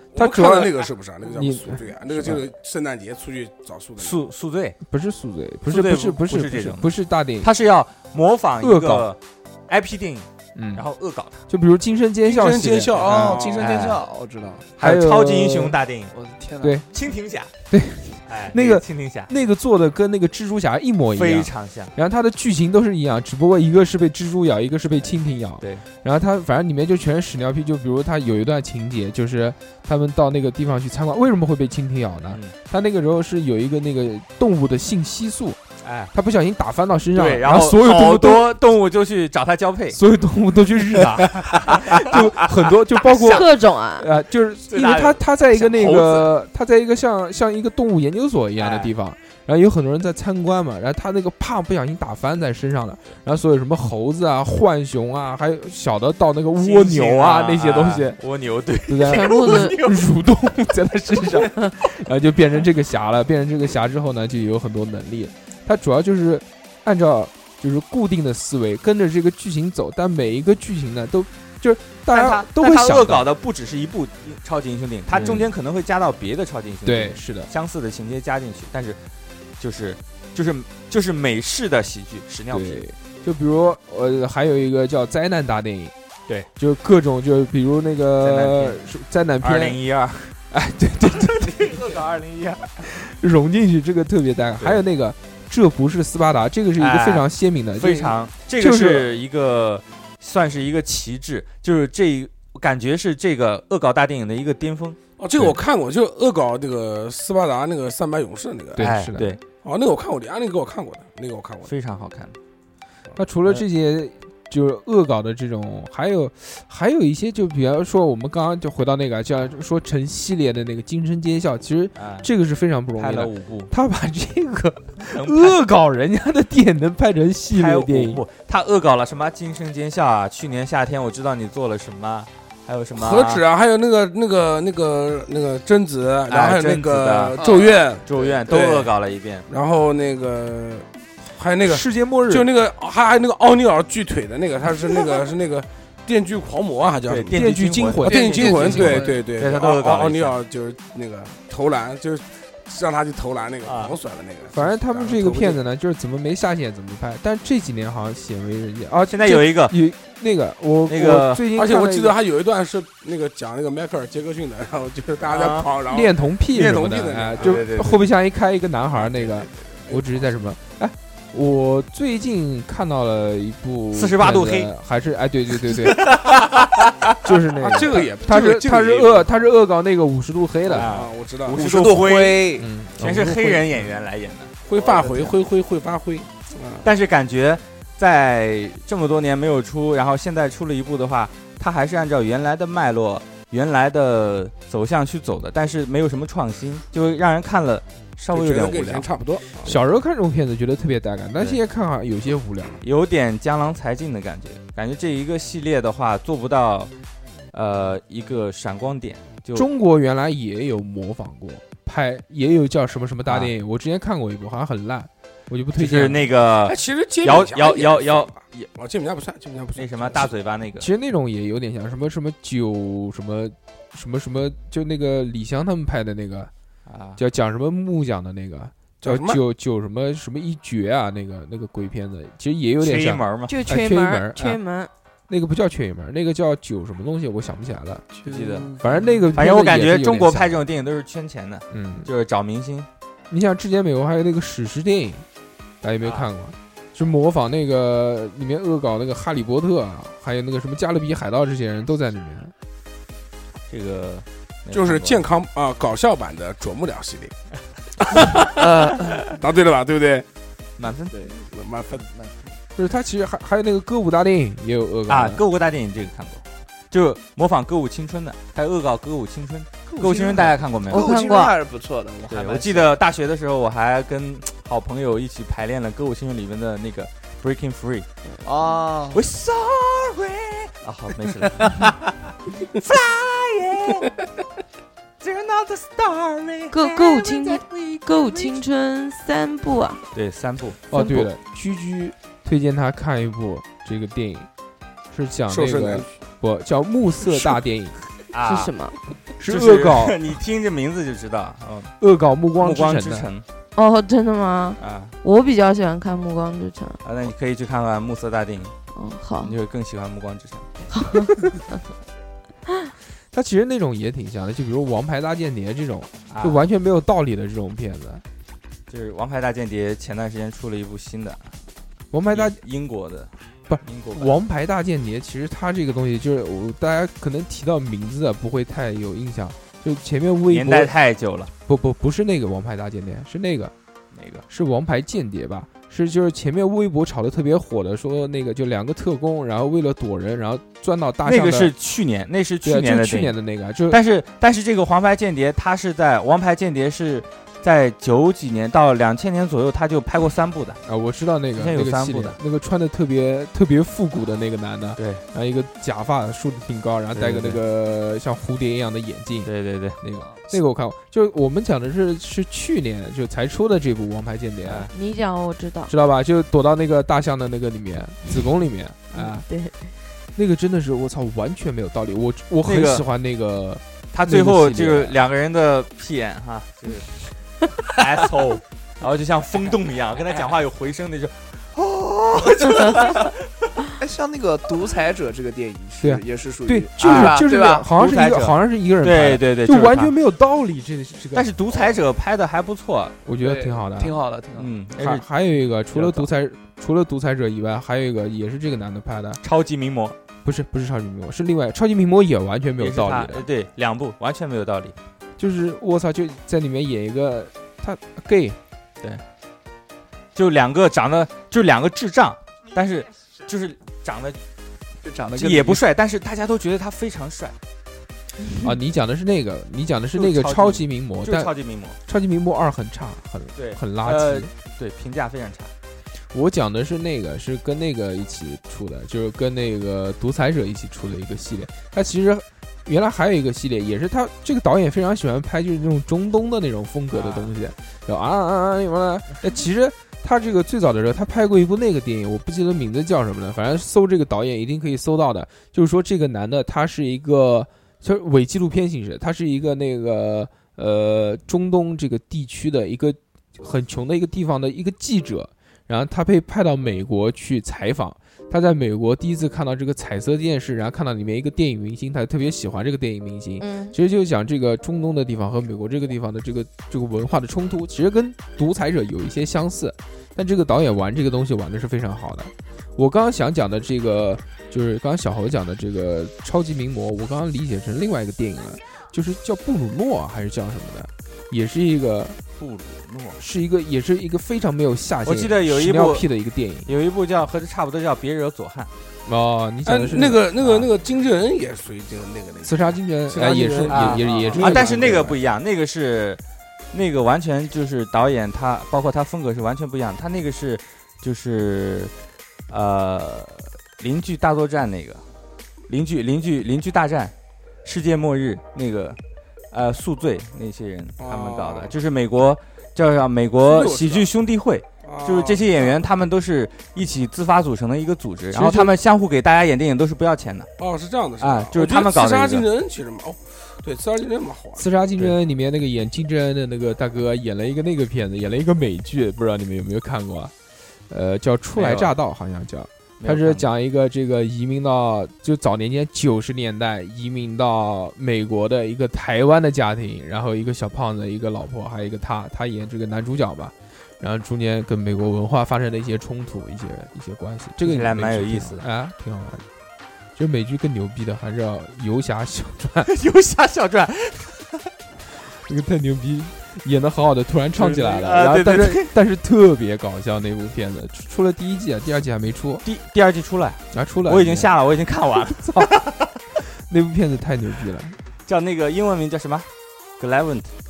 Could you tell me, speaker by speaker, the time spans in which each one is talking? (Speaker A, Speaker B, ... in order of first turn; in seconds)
Speaker A: 0.1-4.2, 12.2-13.9, 105.2-108.8, 109.6-111.7, 132.9-138.9, 139.5-155.6, 161.5-167.6, 169.0-170.1, 177.6-179.3, 180.7-181.6, 184.6-186.9, 198.3-199.8, 216.6-220.3, 229.0-229.4, 254.7-257.3, 258.0-260.2, 261.4-262.1, 295.5-296.1, 489.9-495.4, 511.2-511.9, 513.6-514.3, 515.0-516.0, 520.8-524.9
Speaker B: 0.1-0.8, 1.3-2.4, 4.9-7.5, 8.6-9.1, 10.6-10.8, 11.5-13.2, 14.8-15.8, 17.7-35.6, 36.1-38.5, 39.9-58.2, 58.9-73.2, 75.1-75.5, 76.8-77.5, 82.5-85.9, 86.5-89.8, 90.5-91.8, 92.8-99.2, 108.8-109.4, 113.2-128.2, 141.6-142.5, 147.3-149.1, 154.5-162.1, 165.9-176.2, 177.2-180.9, 182.6-183.9, 199.6-202.8, 209.5-216.3, 220.8-226.5, 227.2-234.6, 235.3-238.1, 238.8-240.6, 241.7-242.1, 243.3-245.2, 245.8-252.5, 262.8-265.4, 290.9-294.5, 295.1-298.0, 299.4-300.2, 302.0-303.3, 313.3-318.2, 322.1-322.6, 323.7-330.9, 331.6-333.7, 334.5-341.7, 342.6-344.0, 350.9-364.9, 365.9-369.4, 370.4-375.2, 386.0-391.5, 393.2-394.2, 395.0-399.4, 400.4-403.4, 405.4-408.6, 418.6-421.5, 422.0-424.5, 426.3-482.4, 483.4-486.9, 489.2-490.4, 492.6-495.3, 518.5-518.9, 524.8-530.5, 531.1-549.6, 550.4-553.1, 555.6-562.8, 563.9-564.7, 565.6-565.9, 566.8-568.2
Speaker C: 4.0-4.8, 5.7-11.4, 13.5-14.0, 14.8-16.1, 16.9-17.5, 18.3-19.3, 21.1-21.9, 25.6-25.8, 35.8-36.1, 37.1-40.0, 40.9-43.5, 44.7-46.3, 48.6-48.9, 56.6-60.0, 72.1-79.0, 79.6-82.8, 88.2-88.8, 89.4-90.3, 91.0-92.8, 96.8-105.0, 108.8-109.4, 111.7-112.3, 121.9-122.3, 123.0-123.7, 125.0-125.6, 127.5-133.4, 136.3-137.4, 138.1-139.4, 147.1-150.4, 153.6-153.9, 159.1-159.8, 160.9-161.4, 165.2-165.7, 167.3-168.0, 173.9-174.7, 175.6-177.0, 180.7-184.5, 186.8-199.1, 202.8-206.9, 207.5-209.7, 213.2-213.5, 215.8-218.7, 219.8-220.9, 226.9-227.2, 232.8-233.6, 238.2-238.8, 239.3-242.9, 246.0-246.3, 253.7-255.2, 260.8-261.3, 265.1-271.1, 272.3-278.1, 279.1-282.0, 282.7-284.1, 285.2-288.6, 290.1-290.8, 298.3-298.7, 299.4-301.9, 302.6-303.5, 304.8-305.1, 307.0-308.7, 309.4-310.7, 316.3-316.6, 318.9-321.5, 322.3-323.3, 323.8-324.4, 330.5-331.5, 334.1-334.4, 341.2-350.8, 351.5-352.4, 355.0-355.2, 357.1-357.6, 359.4-360.0, 364.6-364.9, 372.6-373.0, 374.1-377.1, 377.8-383.4, 387.0-390.1, 391.3-393.2, 394.5-395.2, 395.9-396.3, 399.4-400.2, 402.8-404.9, 410.3-414.4, 415.3-417.6, 420.1-422.0, 423.6-425.7, 437.1-437.5, 482.6-483.4, 485.2-486.3, 486.9-488.9, 490.6-490.9, 493.9-496.4, 496.9-502.1, 502.7-505.2, 505.9-509.2, 509.7-520.7, 521.4-522.7, 531.7-532.1, 533.2-533.7, 547.8-548.9, 553.0-554.9, 557.7-559.1, 562.8-566.3, 568.5-570.7
Speaker D: 12.9-14.7, 16.1-16.8, 137.3-137.8, 148.1-149.3, 181.5-182.7, 184.7-185.3, 238.2-239.2, 258.6-259.3, 261.1-261.4, 261.9-262.5, 269.9-272.9, 278.4-279.2, 281.6-281.9, 384.0-387.9, 393.4-394.7, 415.0-415.8
Speaker E: 43.2-44.0, 59.0-59.8, 233.5-234.9, 270.9-271.6, 286.7-290.0, 290.9-291.3, 298.4-298.9, 303.7-307.0, 308.9-309.5, 310.9-311.4, 364.9-365.9, 369.1-369.7, 463.6-463.9